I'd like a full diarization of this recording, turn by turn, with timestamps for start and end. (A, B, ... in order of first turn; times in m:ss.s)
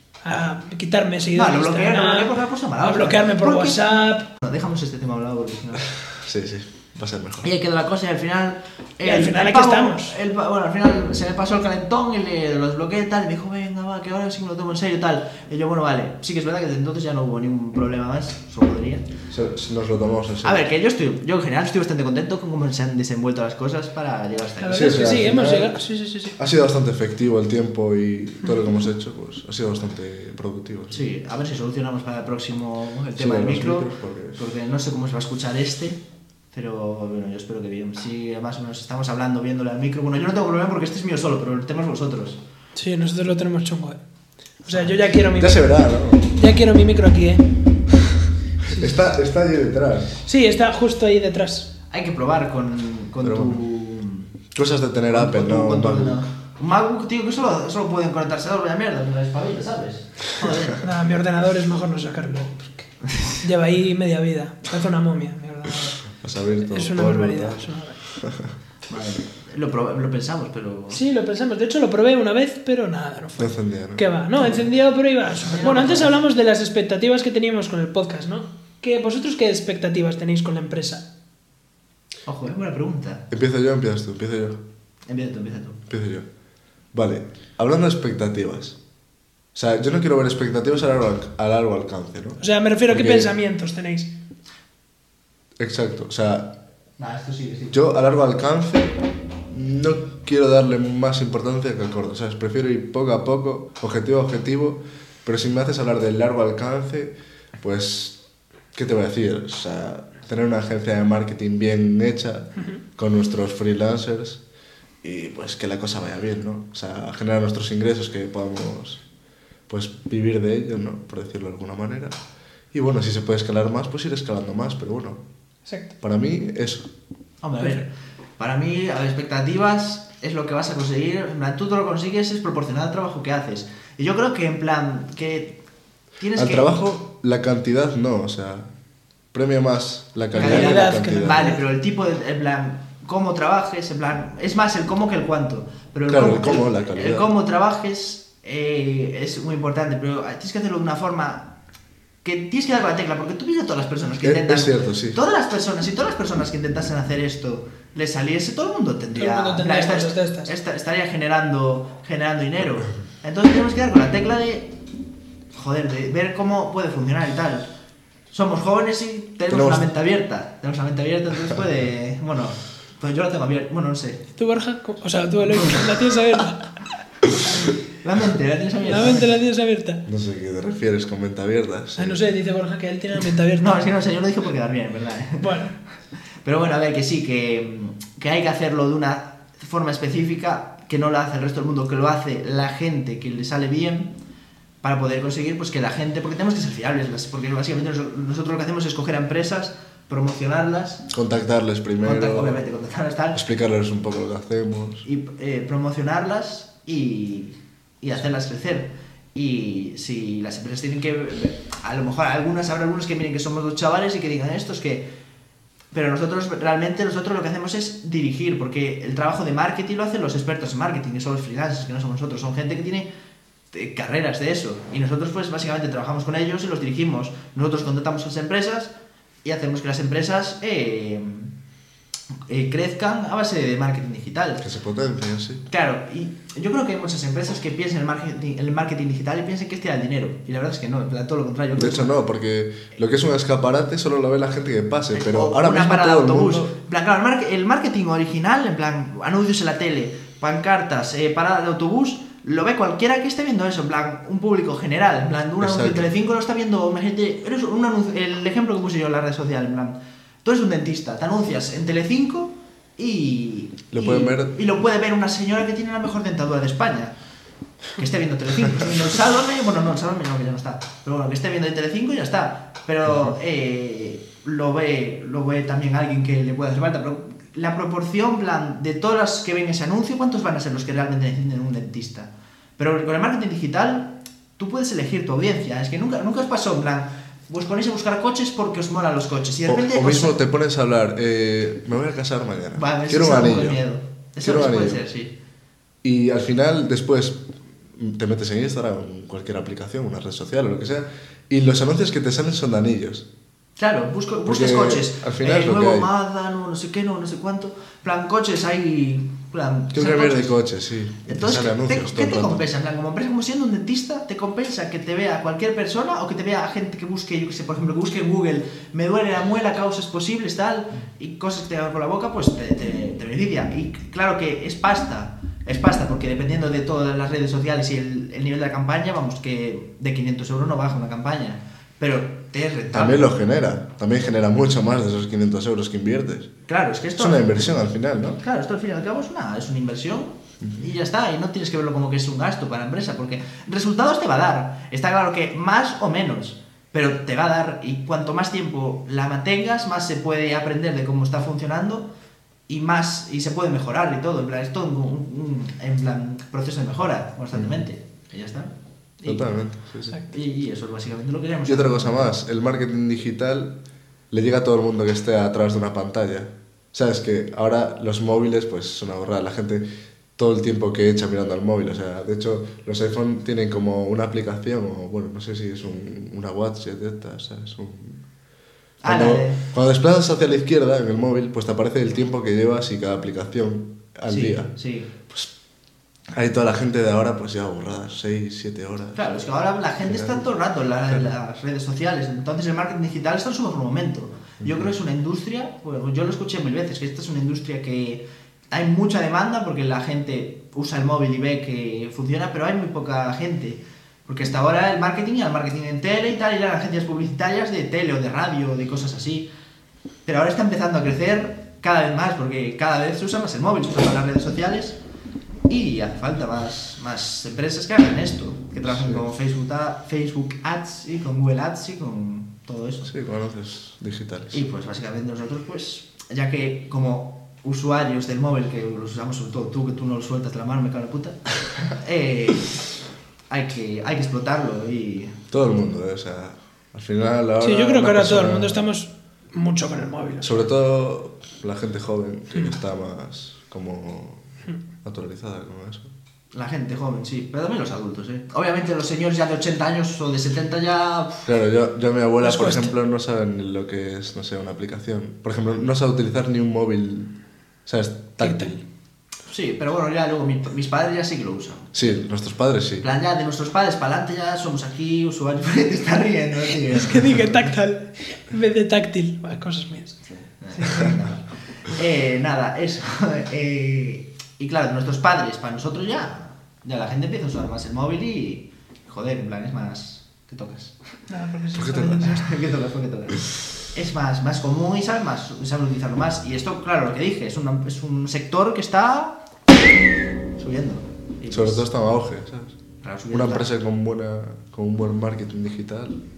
0:00.2-0:04.3 A
0:01.3-0:05.8 B
0:06.1-0:07.5 C
0:07.4-0:19.0 B
0:09.0-0:10.2 A
0:19.3-0:20.7 C
0:20.4-0:25.2 B
0:24.6-0:26.4 A
0:24.7-0:25.8 C
0:26.4-0:31.1 C
0:30.9-0:36.0 B
0:33.2-0:34.4 C
0:36.5-0:42.4 B
0:42.7-0:44.0 A
0:44.6-0:47.5 A
0:45.3-0:46.3 C
0:48.7-0:49.0 A
0:48.7-0:50.2 C
0:50.2-0:51.7 A
0:51.9-0:54.3 B
0:53.2-0:53.6 C
0:54.5-0:56.3 C
0:55.1-1:00.8 B
1:00.8-1:06.1 A
1:06.2-1:08.5 C
1:06.6-1:08.0 A
1:08.9-1:11.0 B
1:10.9-1:21.0 A
1:13.4-1:14.6 C
1:15.3-1:16.1 B
1:22.2-1:23.2 B
1:23.3-1:24.6 C
1:25.1-1:25.8 B
1:25.9-1:26.3 C
1:26.9-1:28.8 C
1:29.5-1:33.3 C
1:32.4-1:34.1 A
1:35.6-1:36.5 C
1:37.0-1:37.7 B
1:37.7-1:48.2 C
1:48.7-1:54.4 C
1:55.0-1:59.0 C
1:59.7-2:02.1 C
2:02.7-2:05.2 C
2:05.6-2:05.9 A
2:06.0-2:06.9 C
2:07.4-2:15.6 B
2:16.2-2:16.7 B
2:16.4-2:18.7 C
2:19.3-2:21.5 C
2:20.3-2:21.6 A
2:20.4-2:31.5 B
2:26.1-2:27.3 C
2:32.2-2:44.7 B
2:34.2-2:35.2 C
2:39.1-2:40.5 A
2:45.5-2:47.7 B
2:48.3-2:54.2 B
2:49.5-2:49.8 C
2:54.4-2:56.8 A
2:58.0-2:59.3 B
2:58.8-3:00.0 A
3:00.0-3:02.2 C
3:02.0-3:03.8 A
3:03.6-3:05.6 B
3:05.4-3:05.7 A
3:06.4-3:14.1 B
3:14.8-3:21.0 B
3:21.1-3:22.6 C
3:22.0-3:23.4 B
3:23.3-3:25.0 C
3:25.0-3:35.1 B
3:35.9-3:43.1 B
3:43.7-3:48.9 B
3:49.4-3:51.5 B
3:52.5-3:54.6 B
3:54.6-3:55.6 C
3:55.7-4:02.1 B
4:01.8-4:06.7 C
4:05.1-4:27.1 B
4:15.6-4:16.1 C
4:23.9-4:24.5 C
4:28.0-4:50.4 B
4:49.7-4:53.8 C
4:52.7-4:55.3 B
4:54.4-4:55.0 C
4:56.0-5:03.2 C
5:03.8-5:10.6 B
5:04.4-5:06.1 C
5:09.9-5:12.6 C
5:11.2-5:33.2 B
5:32.9-5:36.5 C
5:36.7-5:37.7 B
5:37.2-5:38.4 C
5:38.4-5:52.1 B
5:52.7-5:59.5 B
5:59.2-6:00.2 C
6:00.3-6:02.3 B
6:01.7-6:03.8 C
6:04.3-6:09.8 C
6:10.4-6:18.2 C
6:19.0-6:19.6 B
6:19.0-6:24.7 C
6:24.3-6:25.1 B
6:26.3-6:29.2 C
6:29.1-6:49.5 B
6:30.0-6:30.4 C
6:50.2-6:55.0 B
6:55.7-7:03.1 B
6:58.8-6:59.2 C
7:03.0-7:04.6 C
7:04.5-7:12.8 B
7:13.5-7:15.4 B
7:15.5-7:18.8 C
7:17.6-7:20.5 A
7:20.4-7:24.5 C
7:25.0-7:26.1 C
7:26.5-7:31.5 B
7:31.4-7:37.3 C
7:32.4-7:32.9 A
7:37.8-7:38.8 C
7:38.4-7:38.7 A
7:39.5-7:42.0 B
7:41.9-7:43.0 C
7:43.0-7:47.4 B
7:46.8-7:50.2 A
7:50.6-8:01.0 B
7:50.8-7:51.1 A
8:01.3-8:02.5 A
8:01.7-8:02.3 C
8:01.9-8:09.4 B
8:10.6-8:11.9 B
8:11.5-8:12.8 C
8:13.0-8:13.7 B
8:13.3-8:16.2 C